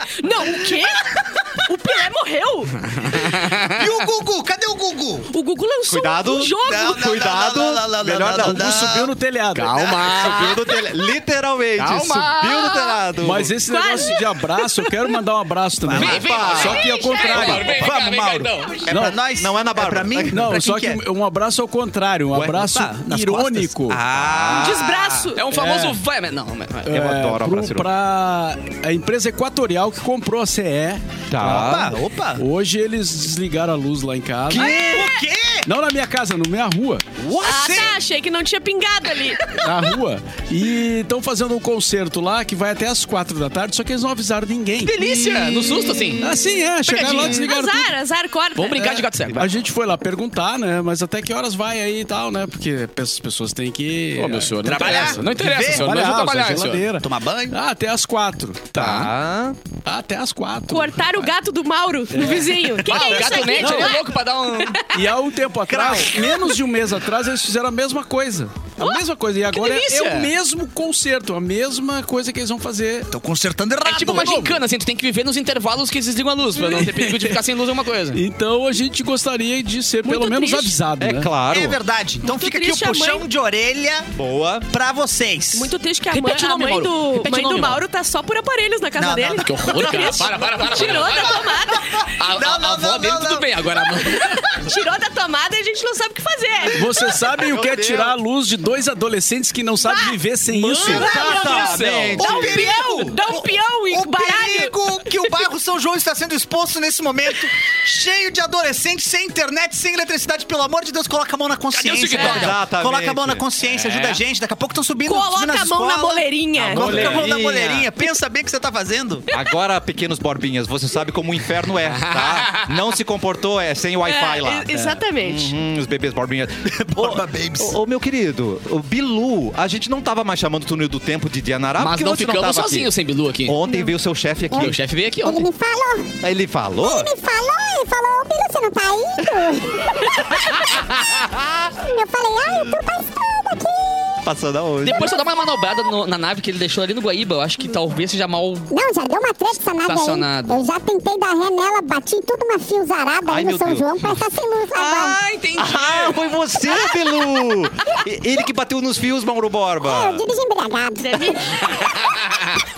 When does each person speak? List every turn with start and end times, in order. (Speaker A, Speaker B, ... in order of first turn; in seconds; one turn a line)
Speaker A: 0.2-3.0
Speaker B: 0.3-1.4
Speaker C: 3.0-3.8
Speaker B: 3.2-5.3
Speaker A: 5.3-7.1
Speaker D: 5.9-8.9
Speaker B: 6.6-9.1
Speaker E: 8.3-9.9
Speaker C: 9.5-10.7
Speaker D: 9.8-13.6
Speaker C: 11.8-13.0
Speaker E: 13.2-16.2
Speaker A: 13.7-14.9
Speaker B: 15.8-21.0
Speaker C: 15.9-18.9
Speaker D: 15.9-17.7
Speaker A: 16.5-17.8
Speaker E: 18.9-19.2
Speaker D: 19.3-20.5
Speaker E: 20.3-24.0
Speaker B: 22.3-25.3
Speaker D: 24.1-24.9
Speaker A: 24.5-25.4
Speaker C: 25.4-27.0
Speaker E: 25.5-26.0
Speaker E: 26.9-31.7
Speaker D: 26.9-27.9
Speaker D: 31.3-31.9
Speaker B: 31.4-32.4
Speaker E: 32.4-34.8
Speaker B: 34.5-35.7
Speaker A: 34.5-35.2
Speaker E: 35.6-37.0
Speaker B: 37.2-38.0
Speaker A: 37.4-39.7
Speaker E: 39.6-47.9
Speaker B: 44.9-45.9
Speaker C: 44.9-46.3
Speaker A: 45.9-46.3
Speaker A: 46.9-49.0
Speaker C: 46.9-47.4
Speaker C: 48.6-49.5
Speaker E: 48.8-59.1
Speaker C: 54.1-56.8
Speaker B: 54.6-56.0
Speaker B: 57.0-57.5
Speaker D: 58.7-59.6
Speaker E: 59.8-61.3
Speaker A: 60.7-64.1
Speaker E: 62.1-64.0
Speaker C: 62.8-64.8
Speaker A: 64.6-64.9
Speaker E: 64.9-73.1
Speaker B: 65.7-66.1
Speaker A: 66.1-66.6
Speaker C: 69.5-70.3
Speaker B: 73.1-74.5
Speaker C: 73.8-78.2
Speaker E: 74.1-74.5
Speaker E: 76.6-77.4
Speaker E: 78.1-81.3
Speaker A: 80.0-80.7
Speaker D: 81.0-81.8
Speaker B: 81.5-84.1
Speaker A: 82.2-83.2
Speaker D: 84.2-84.7
Speaker B: 84.7-85.7
Speaker A: 85.5-92.1
Speaker C: 86.1-87.8
Speaker B: 89.0-91.3
Speaker C: 89.4-94.6
Speaker B: 91.8-93.6
Speaker A: 94.5-96.9
Speaker E: 96.7-101.1
Speaker D: 97.3-98.2
Speaker A: 99.8-100.2
Speaker D: 100.7-102.8
Speaker A: 100.7-105.2
Speaker B: 100.8-119.3
Speaker C: 100.9-102.2
Speaker C: 111.7-112.5
Speaker D: 112.1-114.2
Speaker A: 115.0-117.2
Speaker D: 116.6-117.9
Speaker D: 119.3-132.9
Speaker C: 121.9-122.8
Speaker A: 124.0-125.5
Speaker B: 126.6-127.8
Speaker C: 131.8-133.6
Speaker D: 133.4-134.8
Speaker F: 134.5-136.1
Speaker C: 134.5-135.5
Speaker D: 136.2-137.1
Speaker F: 136.8-141.0
Speaker F: 141.8-144.2
Speaker D: 144.2-145.1
Speaker C: 144.8-148.7
Speaker F: 148.7-155.2
Speaker C: 149.8-150.6
Speaker D: 153.3-154.2
Speaker C: 154.7-156.2
Speaker D: 155.6-160.2
Speaker F: 159.8-161.7
Speaker A: 161.0-162.2